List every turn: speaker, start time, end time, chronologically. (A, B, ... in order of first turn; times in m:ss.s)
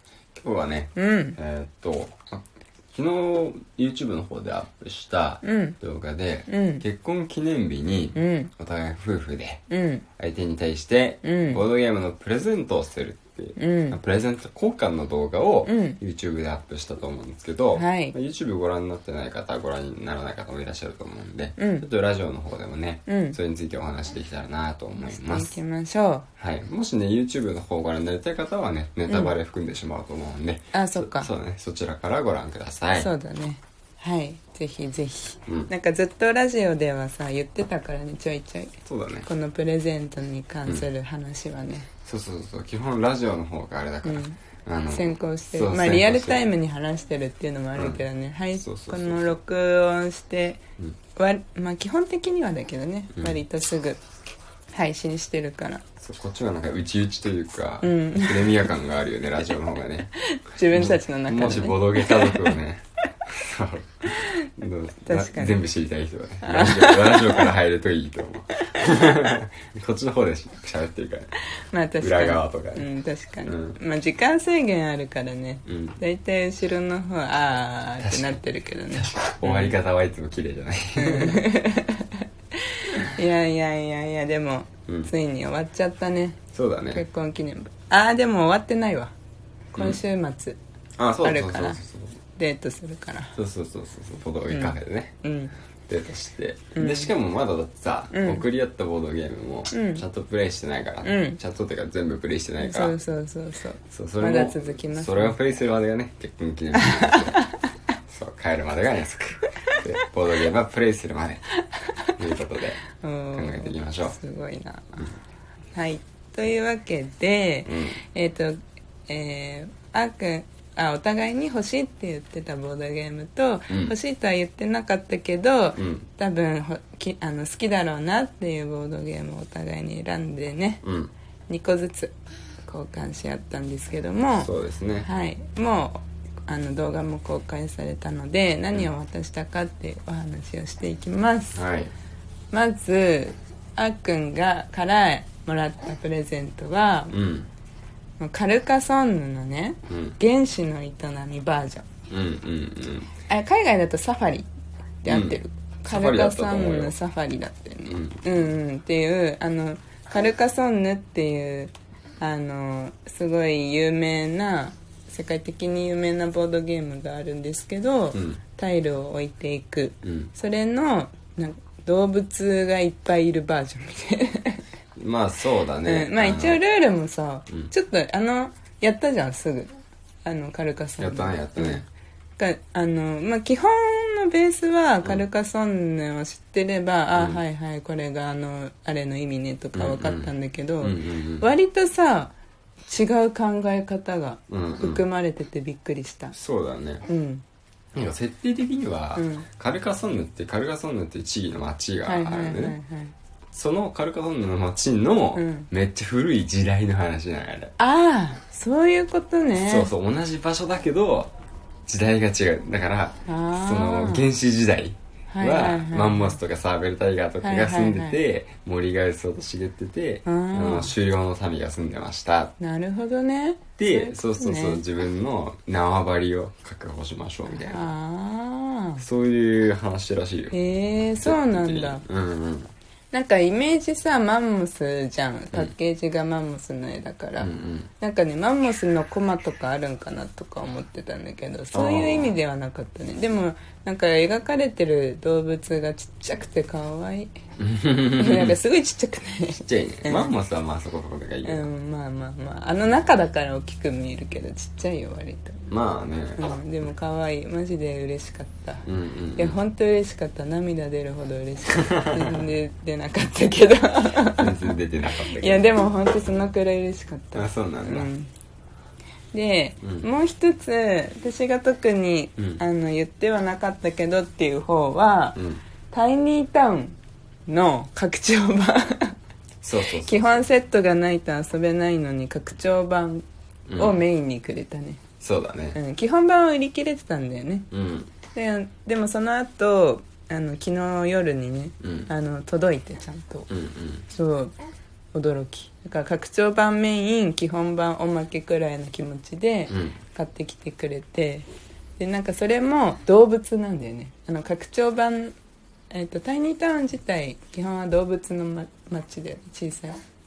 0:00.3-0:09.6 A
0:00.9-0:01.4 B
0:05.4-0:05.8 B
0:06.5-0:06.8 B
0:08.1-0:08.5 B
0:09.7-0:10.0 B
0:10.2-0:25.5 A
0:11.2-0:11.6 B
0:13.6-0:14.0 B
0:15.6-0:16.0 B
0:17.7-0:18.1 B
0:21.6-0:21.8 B
0:23.1-0:23.4 B
0:25.0-0:26.3 B
0:26.4-0:33.1 A
0:29.1-0:29.3 B
0:30.7-0:31.3 B
0:33.0-0:38.7 B
0:38.8-0:39.3 A
0:39.2-0:41.9 B
0:42.0-0:46.4 A
0:44.0-0:50.6 B
0:47.8-0:48.0 A
0:48.6-0:49.4 A
0:51.2-0:54.0 B
0:54.7-0:55.8 B
0:56.0-1:00.1 A
0:57.8-0:58.6 B
1:00.2-1:02.6 B
1:00.7-1:11.3 A
1:04.1-1:04.5 B
1:05.0-1:05.6 B
1:06.4-1:07.5 B
1:11.4-1:19.8 B
1:12.0-1:12.9 A
1:13.4-1:13.8 A
1:15.6-1:16.0 A
1:18.0-1:18.4 A
1:18.9-1:21.4 A
1:21.0-1:22.2 B
1:22.9-1:26.4 B
1:26.5-1:27.0 A
1:26.9-1:29.1 B
1:29.7-1:30.6 B
1:31.0-1:32.2 A
1:31.2-1:31.8 B
1:32.4-1:33.3 B
1:33.4-1:35.2 A
1:34.5-1:35.5 B
1:35.9-1:43.0 A
1:36.7-1:37.1 B
1:38.1-1:38.4 B
1:39.7-1:40.0 B
1:41.0-1:41.4 B
1:42.6-1:45.4 B
1:43.9-1:47.4 A
1:46.8-1:47.5 B
1:48.1-1:51.4 A
1:52.2-1:54.2 A
1:53.0-1:55.1 B
1:55.7-2:10.8 B
1:57.6-1:58.0 A
2:03.7-2:03.9 A
2:05.8-2:06.1 A
2:10.8-2:11.1 A
2:11.5-2:14.5 B
2:14.4-2:15.1 A
2:15.0-2:21.6 B
2:21.5-2:21.9 A
2:22.5-2:27.1 B
2:27.1-2:27.5 A
2:28.2-2:31.8 B
2:29.9-2:30.2 A
2:32.1-2:33.1 A
2:33.2-2:34.5 B
2:35.0-2:54.6 B
2:35.0-2:36.9 A
2:37.9-2:38.5 A
2:48.1-2:48.4 A
2:50.0-2:50.3 A
2:55.0-2:56.6 A
2:55.8-2:59.7 B
3:00.2-3:01.9 B
3:01.0-3:01.8 A
3:02.4-3:12.3 B
3:07.1-3:07.4 A
3:09.7-3:11.5 A
3:12.9-3:16.3 B
3:14.5-3:15.0 A
3:16.3-3:17.0 A
3:17.1-3:17.4 B
3:17.9-3:22.8 A
3:19.2-3:19.5 B
3:22.0-3:23.1 B
3:23.5-3:27.7 A
3:25.3-3:25.7 B
3:27.8-3:29.9 B
3:29.6-3:31.3 A
3:31.9-3:42.5 A
3:33.2-3:34.2 B
3:35.3-3:36.4 B
3:37.4-3:38.2 B
3:40.2-3:40.9 B
3:42.6-3:44.8 B
3:43.8-3:47.9 A
3:47.4-3:49.0 B
3:49.0-3:50.5 A
3:50.5-3:52.0 B
3:51.2-3:52.7 A
3:53.1-4:07.3 B
3:57.4-3:57.9 A
4:01.7-4:02.3 A
4:07.6-4:08.6 A
4:08.1-4:10.3 B
4:09.5-4:11.7 A
4:11.4-4:15.6 B
4:15.7-4:16.4 A
4:16.4-4:24.8 B
4:18.8-4:19.6 A
4:21.8-4:22.4 A
4:24.4-4:25.9 A
4:25.3-4:28.3 B
4:27.3-4:28.1 A
4:29.3-4:35.4 B
4:29.8-4:30.1 A
4:32.4-4:32.6 A
4:35.4-4:35.6 A
4:35.9-4:39.1 B
4:39.6-4:40.4 A
4:39.9-4:43.2 B
4:43.7-4:44.0 A
4:43.8-4:45.0 B
4:45.2-4:45.8 A
4:45.7-4:47.7 B
4:47.7-4:48.1 A
4:48.3-4:53.5 B
4:51.8-4:52.1 A
4:53.5-4:54.1 A
4:54.1-4:54.5 B
4:55.1-5:01.4 B
4:59.7-5:00.0 A
5:02.0-5:05.4 B
5:05.9-5:10.0 B